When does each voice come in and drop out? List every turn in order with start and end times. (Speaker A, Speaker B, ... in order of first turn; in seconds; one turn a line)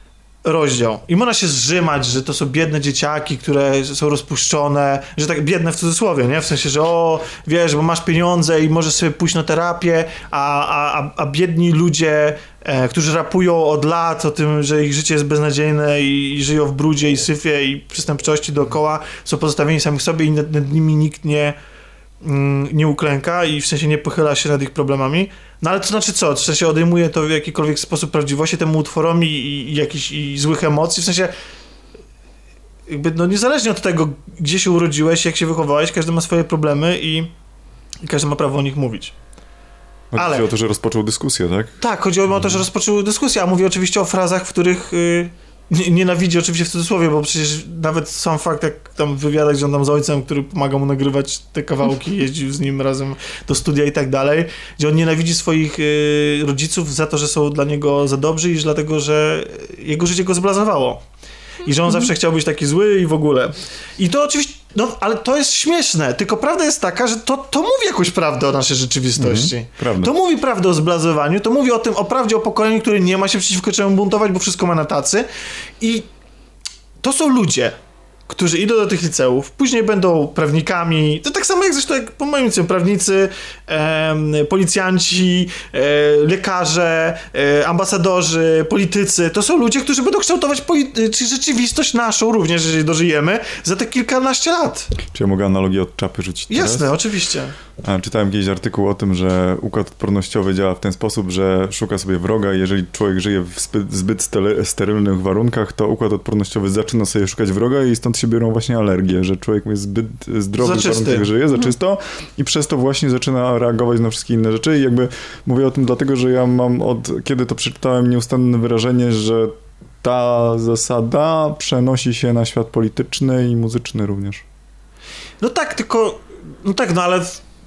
Speaker A: 0.4-21.6
Speaker A: 22.2-31.3
Speaker A: 32.9-37.3
Speaker A: 38.0-39.1
Speaker B: 40.1-41.7
Speaker A: 40.1-40.5
Speaker A: 41.8-61.0
Speaker A: 61.6-75.3
Speaker B: 69.2-70.1
Speaker A: 75.8-76.1
Speaker A: 77.0-77.8
Speaker A: 78.3-95.0
Speaker B: 95.0-96.9
Speaker A: 96.5-97.5
Speaker B: 97.8-124.4
Speaker A: 110.6-111.3
Speaker A: 125.4-127.4